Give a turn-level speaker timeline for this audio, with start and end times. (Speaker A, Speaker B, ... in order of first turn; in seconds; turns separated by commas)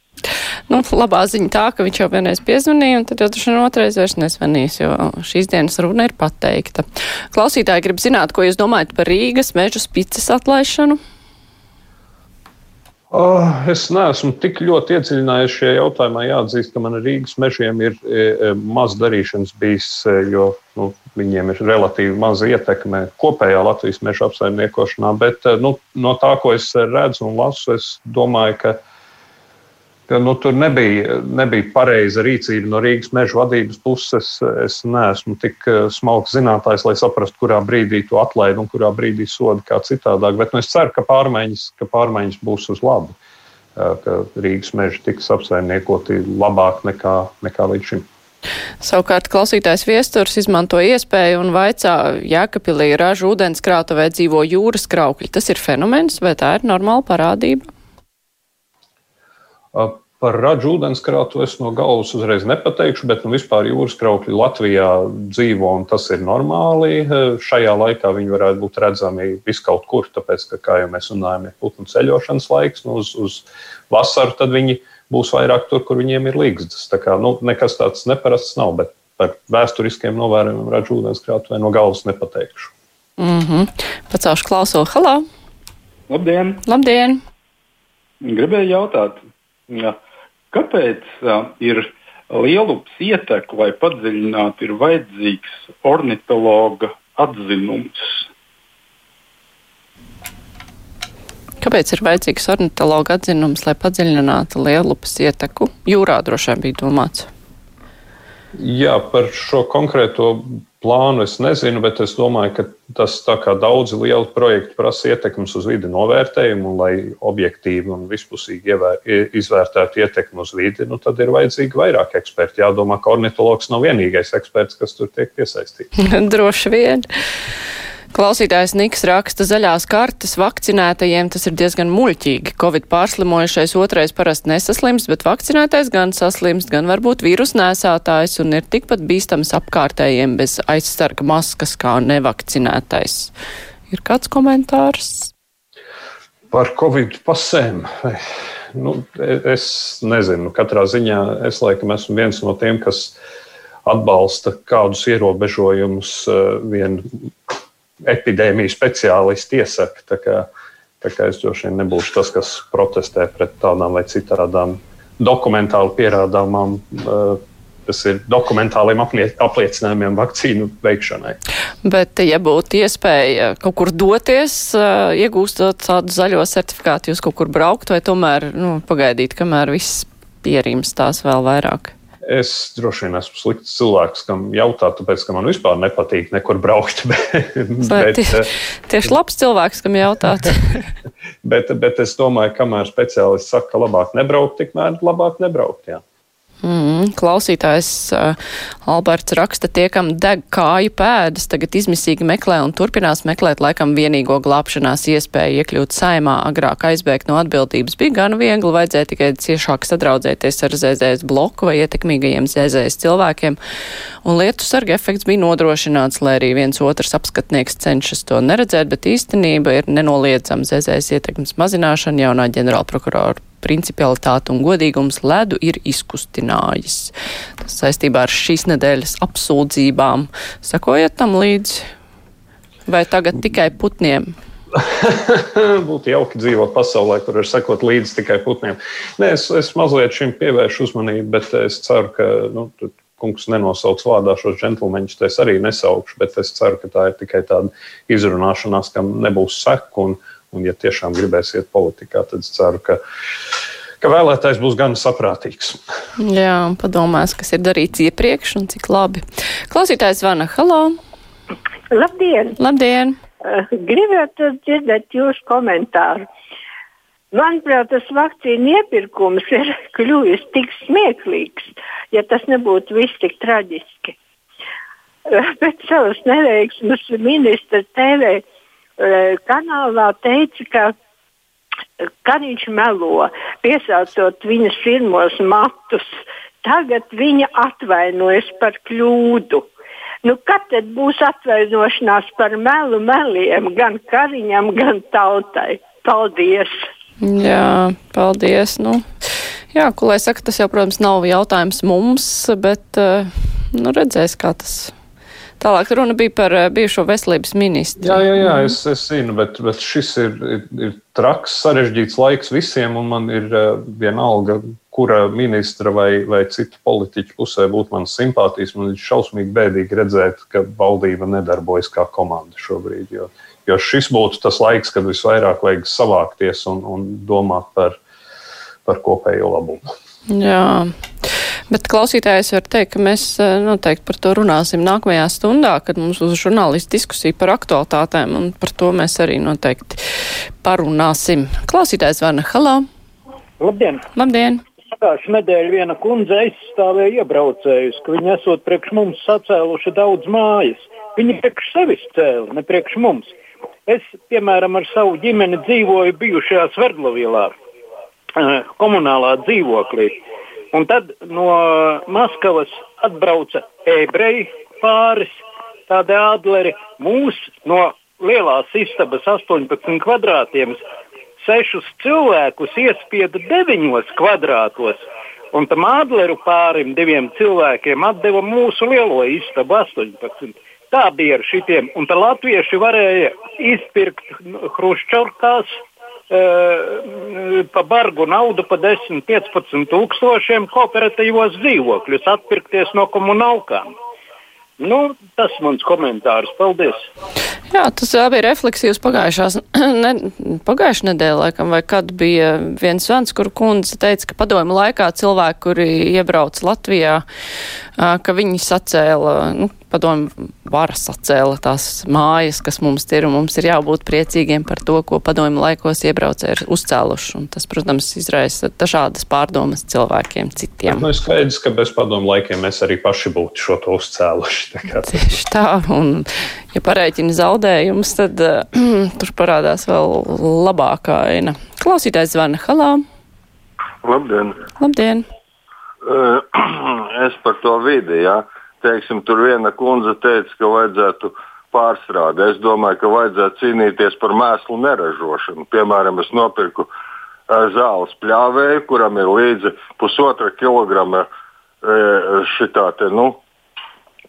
Speaker A: 0.7-11.0, Speaker B: 13.1-28.8, Speaker B: 30.1-43.1, Speaker B: 43.8-48.1, Speaker A: 48.8-57.7, Speaker B: 59.7-82.7, Speaker A: 83.2-85.2, Speaker C: 86.1-86.6, Speaker A: 86.7-87.2, Speaker C: 88.3-90.0, Speaker C: 90.5-98.3, Speaker A: 101.6-107.3, Speaker B: 108.5-125.9, Speaker A: 126.0-127.1, Speaker A: 128.1-143.3, Speaker A: 143.9-145.3, Speaker B: 146.5-153.2, Speaker B: 153.8-160.5, Speaker B: 161.0-171.4, Speaker A: 171.8-181.9, Speaker B: 182.2-188.5, Speaker A: 187.8-190.8, Speaker B: 191.4-196.0, Speaker A: 196.6-213.6, Speaker A: 214.2-231.9, Speaker A: 232.9-234.3, Speaker B: 234.7-253.0, Speaker B: 254.0-255.8, Speaker A: 256.2-261.0, Speaker D: 261.9-262.6, Speaker A: 262.6-263.2, Speaker D: 263.4-266.3, Speaker D: 267.3-274.2, Speaker D: 275.3-278.4, Speaker D: 279.0-280.9, Speaker D: 282.2-289.7, Speaker D: 290.2-296.8, Speaker A: 297.2-299.1, Speaker A: 299.7-304.9, Speaker A: 305.6-308.7, Speaker B: 308.0-328.0, Speaker B: 328.9-329.9, Speaker A: 330.3-342.9, Speaker E: 343.6-344.1, Speaker A: 344.1-344.6, Speaker E: 344.9-353.3, Speaker E: 353.9-357.5, Speaker E: 358.4-360.2, Speaker E: 360.7-370.8, Speaker E: 371.4-393.9, Speaker E: 394.8-397.1, Speaker A: 397.7-407.2, Speaker A: 408.0-421.1, Speaker B: 420.9-425.4, Speaker A: 425.1-433.0, Speaker F: 434.0-434.6, Speaker A: 434.8-435.2, Speaker F: 436.1-446.9, Speaker F: 447.5-451.3, Speaker F: 451.8-453.4